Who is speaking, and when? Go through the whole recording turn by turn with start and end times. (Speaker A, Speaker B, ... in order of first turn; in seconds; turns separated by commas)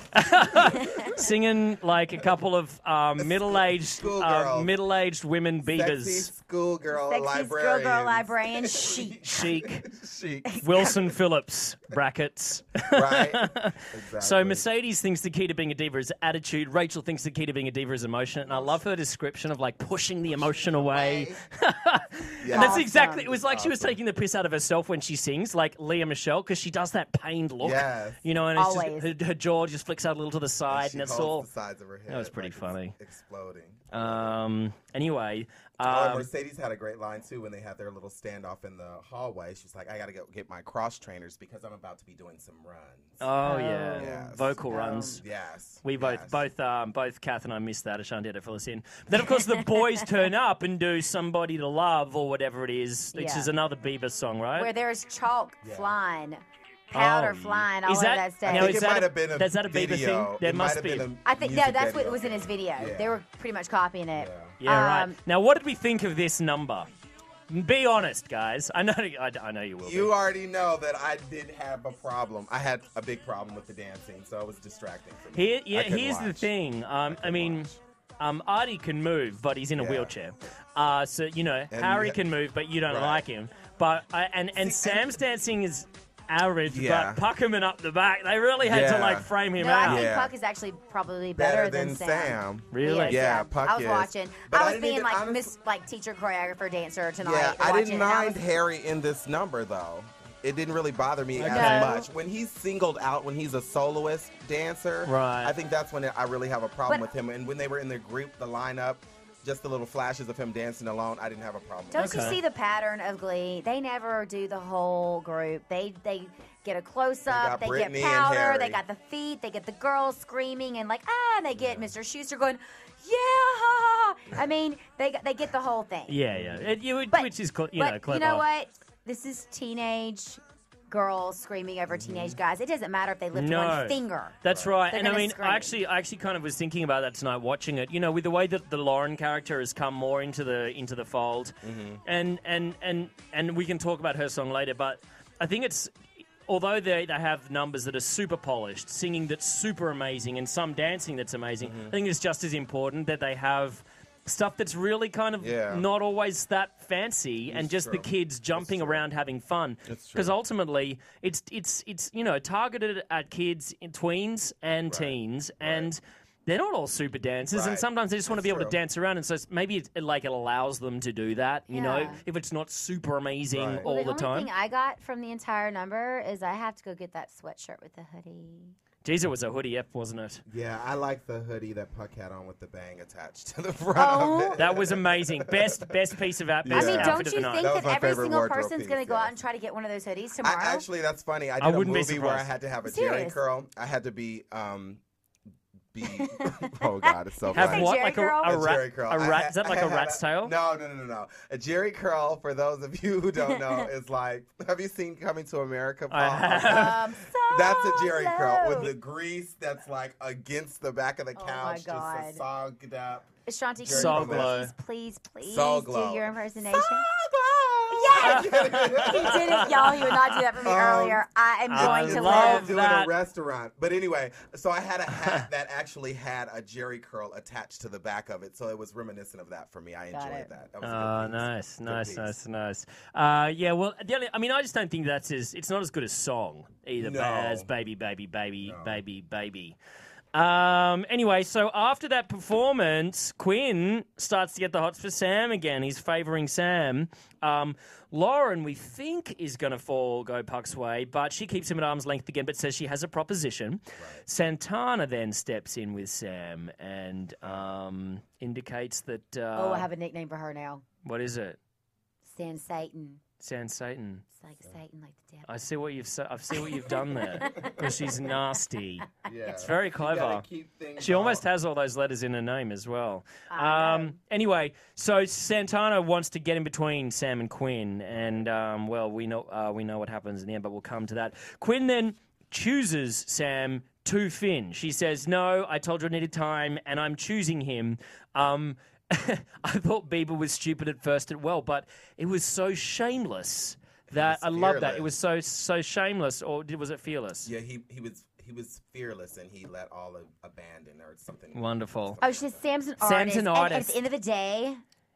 Speaker A: 0.1-6.3, Speaker B: 3.2-4.7, Speaker B: 5.6-10.6, Speaker C: 6.9-9.4, Speaker A: 9.2-9.8, Speaker C: 10.5-10.9, Speaker A: 10.6-31.5, Speaker B: 12.9-14.6, Speaker B: 18.4-18.8, Speaker B: 20.3-21.4, Speaker B: 22.4-24.0, Speaker C: 22.5-23.3, Speaker B: 27.6-28.2, Speaker C: 28.5-29.1, Speaker B: 30.7-34.4, Speaker A: 32.1-33.0, Speaker A: 33.9-36.3, Speaker B: 35.8-43.2, Speaker A: 43.2-45.2, Speaker C: 43.4-45.2, Speaker B: 44.0-44.6, Speaker B: 45.2-46.4, Speaker A: 45.8-54.7, Speaker C: 53.1-53.5, Speaker C: 54.6-58.8, Speaker B: 55.6-55.9, Speaker A: 56.9-61.1, Speaker B: 58.4-63.2, Speaker C: 61.2-65.2, Speaker B: 64.2-64.5, Speaker A: 64.6-66.9, Speaker A: 67.5-70.1, Speaker B: 69.8-76.5, Speaker A: 75.3-90.0, Speaker B: 77.0-77.8, Speaker B: 79.8-80.1, Speaker B: 81.7-82.2, Speaker B: 82.9-83.2, Speaker B: 84.5-85.1, Speaker B: 86.7-87.2, Speaker B: 88.6-89.3, Speaker C: 89.6-98.4, Speaker B: 89.8-90.3, Speaker B: 91.4-95.5, Speaker A: 92.7-93.2, Speaker B: 97.2-112.3, Speaker A: 101.3-101.9, Speaker C: 101.5-102.1, Speaker A: 105.0-105.5, Speaker C: 111.9-126.2, Speaker A: 112.0-112.4, Speaker B: 117.3-118.8, Speaker B: 121.6-121.9, Speaker A: 126.1-128.4, Speaker B: 126.3-126.7, Speaker C: 127.1-134.4, Speaker B: 131.9-132.4, Speaker A: 133.3-174.5, Speaker C: 134.9-135.8, Speaker B: 141.6-142.0, Speaker B: 151.6-151.9, Speaker B: 155.4-155.8, Speaker B: 157.5-159.0, Speaker B: 159.8-160.3, Speaker B: 164.9-165.9, Speaker B: 167.5-168.8, Speaker C: 171.7-172.2, Speaker B: 173.5-173.8, Speaker C: 173.8-178.7, Speaker A: 179.0-180.4, Speaker B: 180.5-185.9, Speaker C: 183.9-184.6, Speaker A: 184.6-187.7, Speaker B: 186.6-189.3, Speaker C: 186.7-190.8, Speaker B: 190.4-195.0, Speaker A: 191.6-192.5, Speaker C: 192.8-193.4, Speaker B: 195.9-197.9, Speaker C: 196.1-198.6, Speaker A: 197.5-200.5, Speaker B: 198.4-207.0, Speaker C: 203.5-203.8, Speaker A: 206.1-207.0, Speaker C: 206.6-208.9, Speaker B: 207.5-213.3, Speaker C: 211.3-212.4, Speaker C: 213.5-217.1, Speaker B: 213.8-214.6, Speaker A: 213.9-214.7, Speaker B: 215.4-219.6, Speaker C: 217.9-222.8, Speaker A: 218.2-220.4, Speaker B: 220.6-232.3, Speaker A: 221.7-223.1, Speaker A: 225.1-225.4, Speaker C: 230.1-230.5, Speaker A: 230.8-239.8, Speaker B: 237.0-237.7, Speaker B: 238.6-239.0, Speaker A: 240.3-259.9, Speaker B: 254.0-254.2, Speaker B: 257.4-257.7, Speaker C: 259.6-260.8, Speaker A: 261.0-261.6, Speaker C: 262.2-263.2, Speaker A: 263.4-264.2, Speaker C: 264.4-265.5, Speaker A: 265.4-270.4, Speaker C: 266.5-268.3, Speaker B: 267.6-267.8, Speaker B: 269.2-271.4, Speaker A: 271.0-297.5, Speaker C: 273.5-274.1, Speaker B: 278.1-278.4, Speaker B: 294.1-295.1, Speaker B: 297.4-302.6, Speaker A: 301.5-302.2, Speaker C: 302.2-304.8, Speaker A: 303.0-303.9